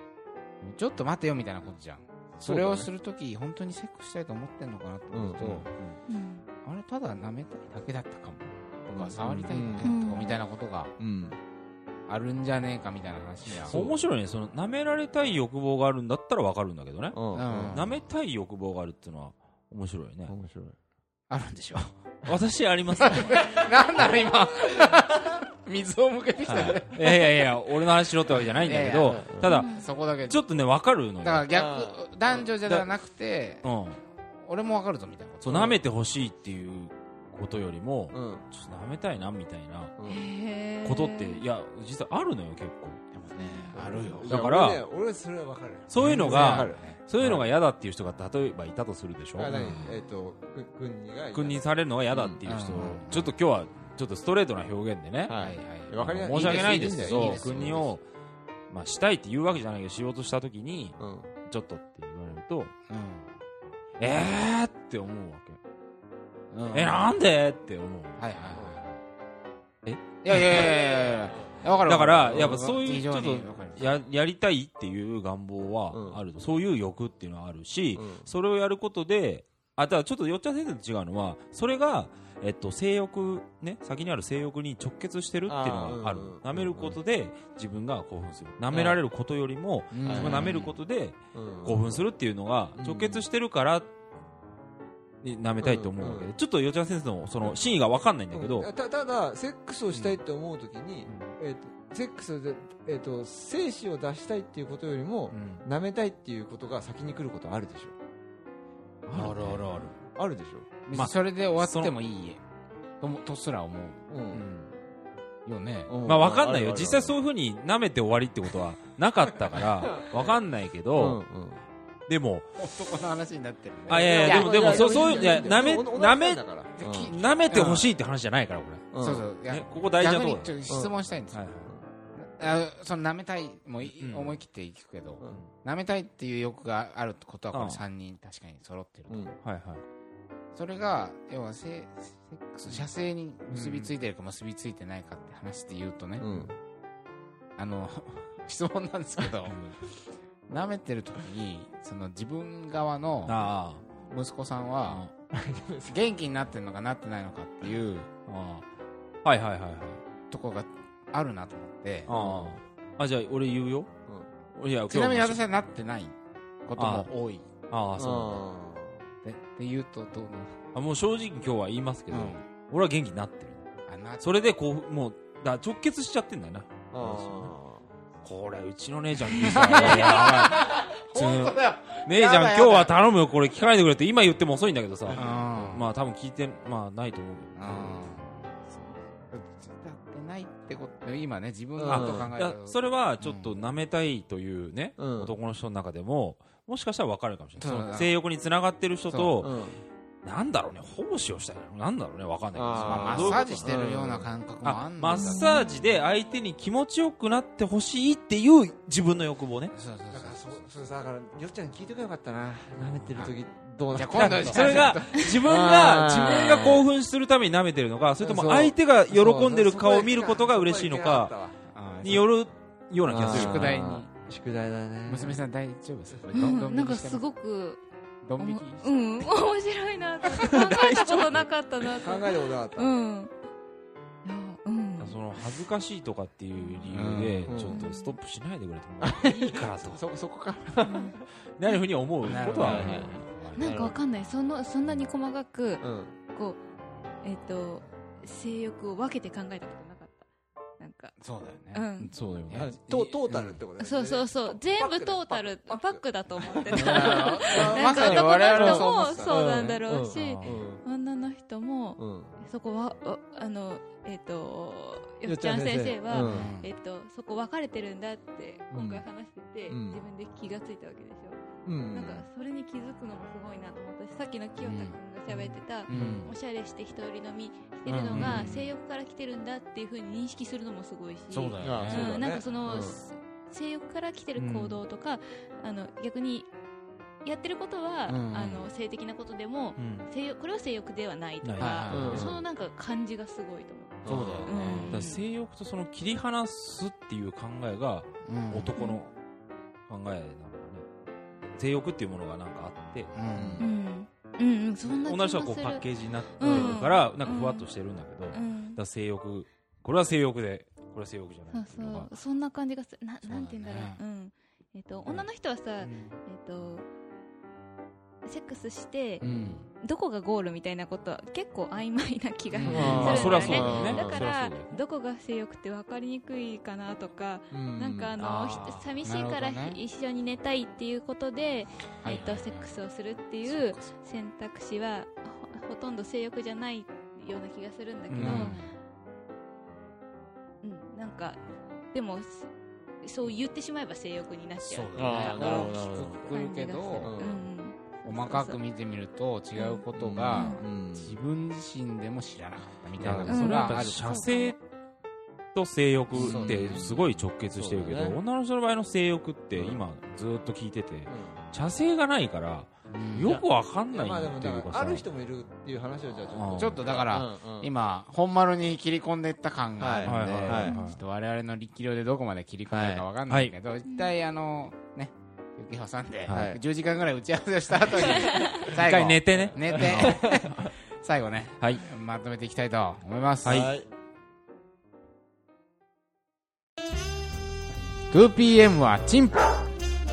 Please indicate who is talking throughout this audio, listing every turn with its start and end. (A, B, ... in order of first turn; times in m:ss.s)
0:00.6-0:05.7 A
0:02.4-0:02.9 B
0:05.1-0:06.0 B
0:06.1-0:06.4 C
0:06.6-0:10.9 A
0:08.9-0:09.9 B
0:09.2-0:09.5 D
0:09.8-0:10.4 C
0:11.0-0:11.4 B
0:12.1-0:13.8 A
0:13.5-0:20.3 D
0:13.6-0:14.0 B
0:17.1-0:17.8 B
0:17.3-0:18.0 A
0:20.3-0:20.8 B
0:21.3-0:22.1 A
0:22.2-0:23.6 D
0:23.0-0:27.4 A
0:26.4-0:31.5 D
0:28.6-0:30.4 A
0:29.0-0:29.4 B
0:29.4-0:29.9 C
0:31.2-0:35.8 A
0:31.5-0:32.5 B
0:33.6-0:34.0 D
0:35.4-0:39.9 D
0:35.5-0:35.8 B
0:38.1-0:38.4 B
0:40.0-0:40.3 B
0:40.0-0:41.4 C
0:40.8-0:43.0 D
0:43.1-0:44.4 A
0:43.4-0:43.8 C
0:43.7-0:47.5 B
0:44.2-0:44.8 D
0:45.9-0:49.5 D
0:46.0-0:47.0 A
0:49.3-0:52.4 B
0:49.5-0:49.9 A
0:51.3-0:55.4 D
0:52.4-0:53.3 A
0:55.2-0:57.9 B
0:55.4-0:57.9 A
0:56.0-0:58.0 D
0:58.7-1:02.7 D
1:01.0-1:01.3 B
1:02.9-1:03.3 A
1:04.0-1:05.6 D
1:06.5-1:07.0 A
1:06.7-1:08.3 D
1:08.2-1:09.0 A
1:08.5-1:08.8 B
1:09.8-1:10.7 D
1:10.2-1:13.9 A
1:11.8-1:33.9 D
1:12.3-1:12.8 B
1:15.9-1:16.2 B
1:17.9-1:18.3 B
1:25.5-1:27.0 B
1:28.7-1:29.0 B
1:29.9-1:30.6 A
1:30.0-1:30.7 B
1:31.3-1:32.0 B
1:32.7-1:33.2 B
1:35.2-1:38.7 D
1:35.6-1:36.3 B
1:38.3-1:48.0 B
1:39.9-1:40.2 D
1:41.1-1:41.3 D
1:45.3-1:45.6 D
1:49.0-1:49.8 A
1:49.1-1:50.0 D
1:50.0-1:50.7 B
1:50.9-1:52.4 A
1:50.9-1:51.9 D
1:53.0-1:54.8 A
1:54.1-1:54.4 B
1:55.4-1:56.0 A
1:55.9-1:57.2 B
1:56.0-2:01.2 D
1:59.9-2:00.4 B
2:00.9-2:01.6 B
2:02.1-2:02.6 D
2:02.6-2:05.6 A
2:03.9-2:07.2 B
2:03.9-2:08.9 D
2:06.8-2:07.9 A
2:08.9-2:09.3 B
2:09.0-2:11.4 A
2:09.5-2:10.6 D
2:10.7-2:10.9 B
2:11.3-2:11.7 D
2:12.1-2:19.3 A
2:13.8-2:14.4 D
2:17.5-2:17.8 D
2:19.1-2:19.4 B
2:19.4-2:19.8 D
2:20.5-2:26.5 A
2:23.5-2:23.9 D
2:26.2-2:26.5 B
2:27.6-2:33.5 A
2:33.2-2:33.8 D
2:34.0-2:35.0 A
2:34.8-2:35.1 D
2:35.3-2:36.1 B
2:35.9-2:38.1 A
2:38.3-2:38.7 D
2:39.2-2:40.0 D
2:40.3-2:42.1 A
2:42.1-2:43.9 D
2:42.1-2:42.5 B
2:44.0-2:44.3 B
2:44.5-2:45.4 D
2:44.9-2:47.5 A
2:46.8-2:47.1 D
2:47.7-2:48.4 D
2:48.0-2:49.1 B
2:49.2-2:50.6 A
2:50.7-2:57.5 D
2:52.1-2:52.4 A
2:53.9-2:54.2 A
2:56.9-2:57.8 B
2:58.2-3:08.0 D
2:59.3-3:03.0 A
3:05.1-3:05.4 B
3:05.1-3:05.9 A
3:07.6-3:13.6 A
3:11.8-3:12.3 B
3:11.9-3:19.5 D
3:15.0-3:15.3 B
3:17.6-3:18.2 A
3:19.1-3:19.4 A
3:19.4-3:19.8 B
3:20.2-3:23.8 D
3:22.5-3:24.3 B
3:22.8-3:25.6 A
3:24.6-3:29.7 D
3:25.1-3:25.7 C
3:29.7-3:30.4 A
3:30.1-3:36.8 B
3:33.9-3:35.6 A
3:34.1-3:41.3 D
3:36.2-3:36.8 A
3:38.2-3:41.6 B
3:41.7-3:42.3 A
3:42.0-3:43.8 D
3:43.1-3:45.4 B
3:43.3-3:44.1 A
3:45.1-3:47.2 A
3:46.3-3:47.8 C
3:48.2-3:49.3 A
3:48.4-3:53.3 C
3:51.9-3:52.9 B
3:54.2-3:55.2 C
3:55.0-4:00.0 D
3:56.9-3:57.6 A
3:57.5-3:57.8 B
3:57.7-3:58.2 C
3:59.0-4:01.2 B
4:00.8-4:01.2 C
4:01.6-4:03.2 D
4:02.2-4:03.9 A
4:02.5-4:04.0 B
4:02.7-4:03.0 C
4:03.5-4:06.6 C
4:05.8-4:06.2 B
4:07.2-4:10.2 C
4:10.8-4:11.2 C
4:11.2-4:13.2 A
4:11.7-4:12.1 C
4:12.2-4:12.7 D
4:12.5-4:20.8 B
4:13.3-4:13.6 D
4:13.8-4:31.4 C
4:16.7-4:19.4 A
4:20.1-4:20.6 A
4:22.0-4:22.3 B
4:25.2-4:26.5 B
4:26.1-4:26.7 A
4:28.7-4:29.0 B
4:29.7-4:30.0 B
4:31.6-4:32.3 B
4:31.9-4:46.5 C
4:34.6-4:35.0 A
4:35.9-4:36.3 B
4:35.9-4:36.3 A
4:37.8-4:38.6 A
4:38.1-4:38.5 B
4:41.3-4:42.2 A
4:41.6-4:43.0 B
4:44.4-4:44.8 D
4:47.2-4:55.2 C
4:48.1-4:48.7 A
4:49.8-4:50.1 D
4:51.4-4:52.2 D
4:51.6-4:52.3 A
4:51.9-4:52.4 B
4:54.0-4:54.9 B
4:54.0-4:55.0 A
4:54.9-4:59.1 D
4:58.2-4:58.8 A
4:58.8-4:59.0 C
4:59.9-5:00.9 D
5:01.4-5:03.1 D
5:03.1-5:03.6 A
5:03.3-5:03.7 B
5:03.6-5:07.7 C
5:04.8-5:12.1 D
5:08.3-5:08.8 C
5:11.5-5:16.8 C
5:13.2-5:14.0 A
5:15.8-5:16.1 D
5:18.2-5:19.2 C
5:19.2-5:19.6 B
5:19.2-5:19.7 A
5:19.8-5:38.6 C
5:22.5-5:23.8 A
5:22.6-5:24.2 B
5:22.7-5:24.8 D
5:27.5-5:28.1 B
5:28.2-5:29.8 A
5:32.0-5:32.7 A
5:33.4-5:33.9 A
5:38.1-5:38.5 D
5:38.2-5:38.7 A
5:40.6-5:41.4 C
5:41.9-5:42.5 C
5:43.0-5:45.8 C
5:44.6-5:47.1 A
5:44.9-5:46.3 B
5:46.3-5:48.6 C
5:47.0-5:47.4 B
5:48.0-5:54.3 A
5:49.6-5:50.6 C
5:49.9-5:51.2 B
5:53.0-5:54.6 D
5:53.3-5:54.5 C
5:55.5-6:05.0 D
5:56.1-5:56.9 A
5:56.1-5:58.2 B
5:59.5-5:59.8 B
6:01.1-6:01.4 B
6:02.9-6:03.4 A
6:03.2-6:07.7 B
6:06.3-6:06.8 D
6:06.6-6:23.7 A
6:09.8-6:10.7 B
6:10.0-6:11.0 D
6:12.7-6:13.5 D
6:13.8-6:14.1 C
6:16.3-6:16.5 D
6:16.3-6:16.6 B
6:18.6-6:20.2 D
6:19.3-6:20.7 B
6:21.6-6:21.8 D
6:23.4-6:23.7 D
6:23.4-6:23.9 B
6:28.1-6:29.7 A